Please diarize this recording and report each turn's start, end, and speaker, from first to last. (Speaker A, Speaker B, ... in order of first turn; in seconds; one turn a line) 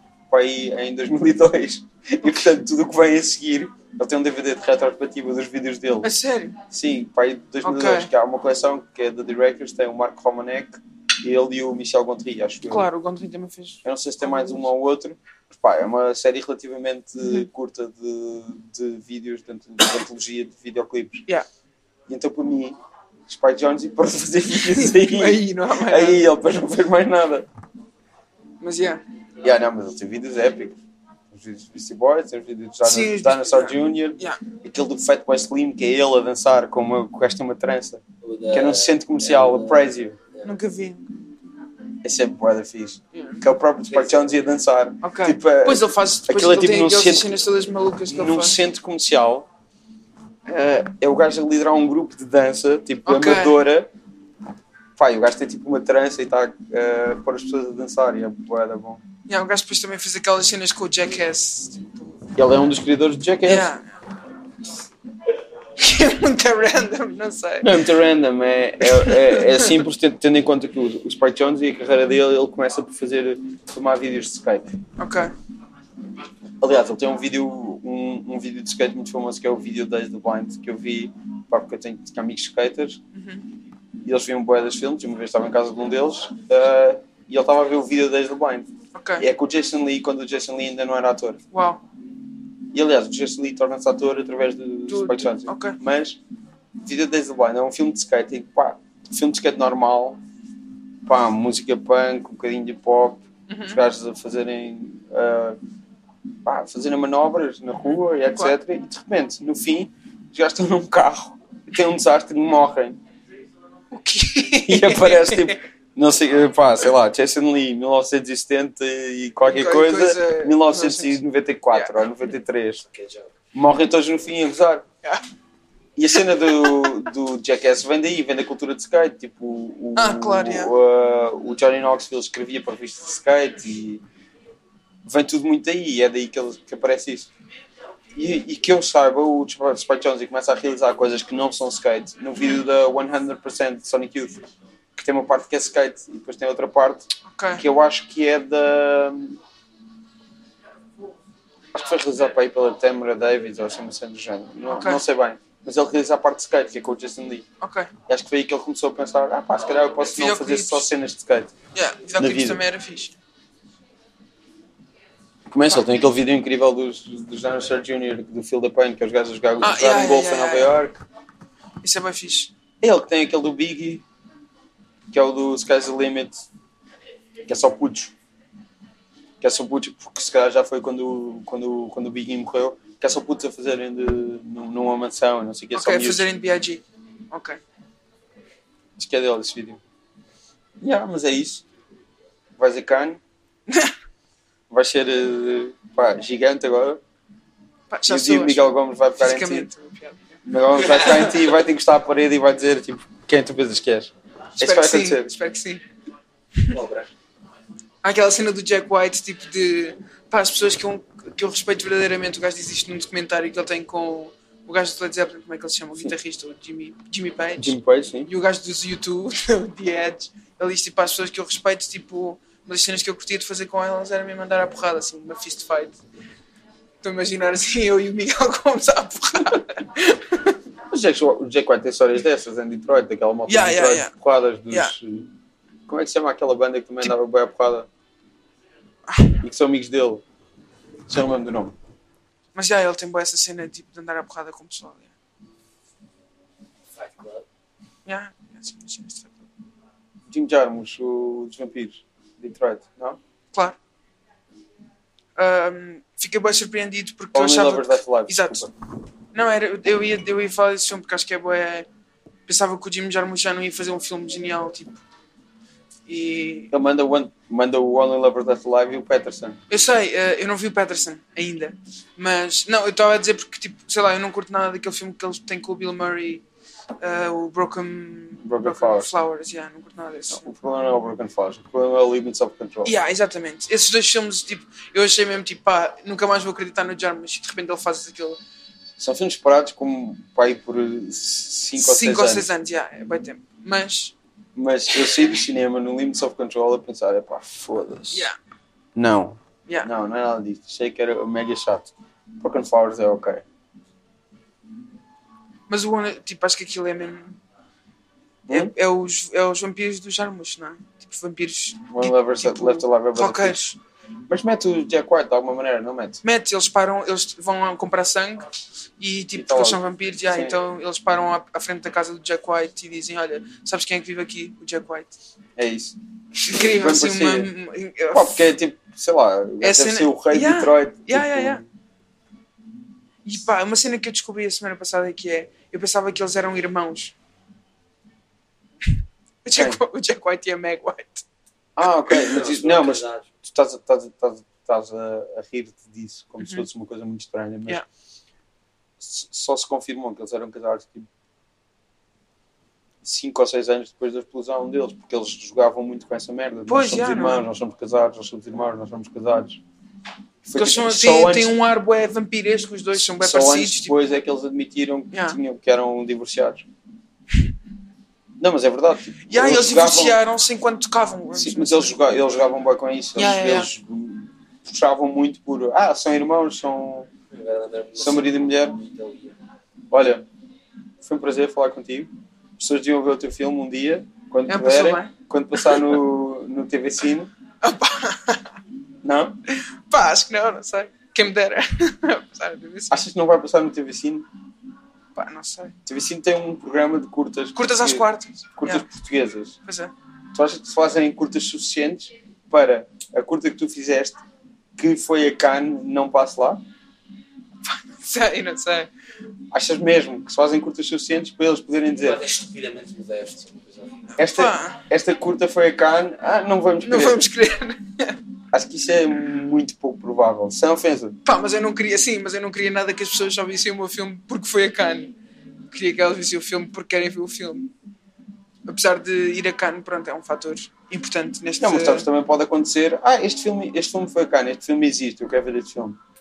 Speaker A: 0.3-6.1
Speaker B: 6.0-6.6
Speaker A: 6.7-12.9
Speaker B: 7.6-8.1
Speaker B: 12.6-14.6
Speaker A: 13.8-21.2
Speaker A: 22.1-27.5
Speaker B: 24.8-26.3
Speaker B: 28.6-29.0
Speaker A: 29.4-30.8
Speaker A: 31.3-40.1
Speaker B: 32.8-34.4
Speaker C: 38.2-40.5
Speaker B: 40.4-41.1
Speaker A: 42.0-47.4
Speaker B: 43.1-43.4
Speaker B: 45.0-48.6
Speaker A: 48.1-49.5
Speaker A: 50.5-53.9
Speaker B: 53.0-53.6
Speaker A: 55.0-59.0
Speaker B: 59.3-62.1
Speaker A: 62.3-63.7
Speaker B: 63.4-63.9
Speaker B: 65.8-67.8
Speaker A: 67.6-74.8
Speaker B: 68.8-69.8
Speaker B: 75.0-75.3
Speaker A: 76.6-83.0
Speaker B: 83.1-83.4
Speaker A: 84.0-91.4
Speaker B: 88.9-89.2
Speaker B: 91.5-91.8
Speaker A: 92.7-96.2
Speaker B: 94.9-95.8
Speaker A: 96.8-100.2
Speaker A: 101.0-105.6
Speaker B: 103.5-103.8
Speaker A: 106.4-113.0
Speaker B: 113.9-115.6
Speaker A: 114.7-122.8
Speaker B: 119.5-122.0
Speaker C: 122.9-123.3
Speaker A: 123.5-124.8
Speaker A: 126.0-134.0
Speaker B: 126.5-127.0
Speaker B: 129.9-130.7
Speaker A: 135.0-137.3
Speaker A: 138.1-149.4
Speaker B: 147.3-147.6
Speaker A: 151.7-157.4
Speaker B: 154.7-155.0
Speaker B: 157.6-157.9
Speaker A: 158.1-161.5
Speaker B: 160.1-160.9
Speaker B: 161.7-163.2
Speaker A: 162.2-162.6
Speaker A: 165.5-171.0
Speaker B: 169.6-170.8
Speaker B: 171.8-172.5
Speaker A: 172.8-174.0
Speaker A: 175.1-176.4
Speaker A: 177.4-178.1
Speaker A: 179.4-186.3
Speaker B: 185.7-187.6
Speaker A: 189.0-189.8
Speaker A: 190.8-191.6
Speaker A: 192.6-193.2
Speaker B: 193.7-193.9
Speaker A: 194.7-197.0
Speaker B: 197.9-200.2
Speaker A: 198.1-199.7
Speaker A: 200.4-205.3
Speaker B: 204.6-205.8
Speaker C: 206.7-207.1
Speaker B: 208.0-226.0
Speaker A: 217.6-218.3
Speaker B: 227.0-230.6
Speaker A: 230.9-235.3
Speaker B: 233.5-234.1
Speaker A: 235.9-237.9
Speaker A: 239.4-240.2
Speaker A: 241.1-241.7
Speaker B: 242.5-245.1
Speaker C: 246.9-247.4
Speaker B: 248.1-249.5
Speaker A: 250.3-253.2
Speaker B: 255.4-258.7
Speaker A: 257.3-258.7
Speaker B: 259.3-261.9
Speaker B: 262.4-265.0
Speaker B: 266.1-266.7
Speaker A: 266.7-269.6
Speaker B: 269.7-276.4
Speaker B: 277.0-280.5
Speaker A: 278.4-279.1
Speaker A: 280.3-282.9
Speaker B: 282.8-288.4
Speaker A: 289.0-292.5
Speaker B: 291.7-294.1
Speaker A: 294.5-298.3
Speaker B: 298.1-298.4
Speaker A: 298.9-303.4
Speaker B: 305.7-307.4
Speaker A: 308.5-308.7
Speaker B: 308.5-313.8
Speaker A: 311.9-313.7
Speaker A: 314.3-316.2
Speaker B: 316.2-318.5
Speaker B: 319.0-325.1
Speaker A: 319.3-320.6
Speaker A: 325.6-327.5
Speaker B: 326.4-328.5
Speaker A: 328.1-331.6
Speaker B: 329.6-331.6
Speaker B: 333.2-337.1
Speaker B: 339.4-341.2
Speaker A: 339.5-339.8
Speaker A: 341.8-347.8
Speaker C: 342.1-343.2
Speaker A: 349.0-351.1
Speaker A: 353.0-359.6
Speaker B: 356.7-357.4
Speaker A: 360.4-361.6
Speaker B: 360.5-363.9
Speaker A: 363.0-366.6
Speaker B: 365.1-365.4
Speaker A: 368.4-370.2
Speaker B: 369.3-371.9
Speaker A: 371.3-377.1
Speaker B: 373.1-373.7
Speaker C: 377.3-379.3
Speaker A: 377.9-378.8
Speaker A: 379.9-380.2
Speaker A: 381.0-387.3
Speaker B: 384.5-385.9
Speaker B: 387.6-388.5
Speaker A: 389.0-389.4
Speaker B: 389.5-393.0
Speaker A: 392.9-394.3
Speaker B: 395.1-395.8
Speaker A: 395.9-399.6
Speaker B: 397.5-398.8
Speaker B: 399.6-399.9
Speaker A: 400.3-404.2
Speaker A: 404.8-406.6
Speaker B: 407.6-408.9
Speaker A: 409.5-412.2
Speaker C: 412.0-414.0
Speaker A: 414.2-417.3
Speaker B: 414.2-414.8
Speaker B: 416.8-418.2
Speaker A: 418.5-421.2
Speaker B: 421.2-425.1
Speaker B: 425.7-427.7
Speaker B: 428.6-432.1
Speaker A: 431.6-436.0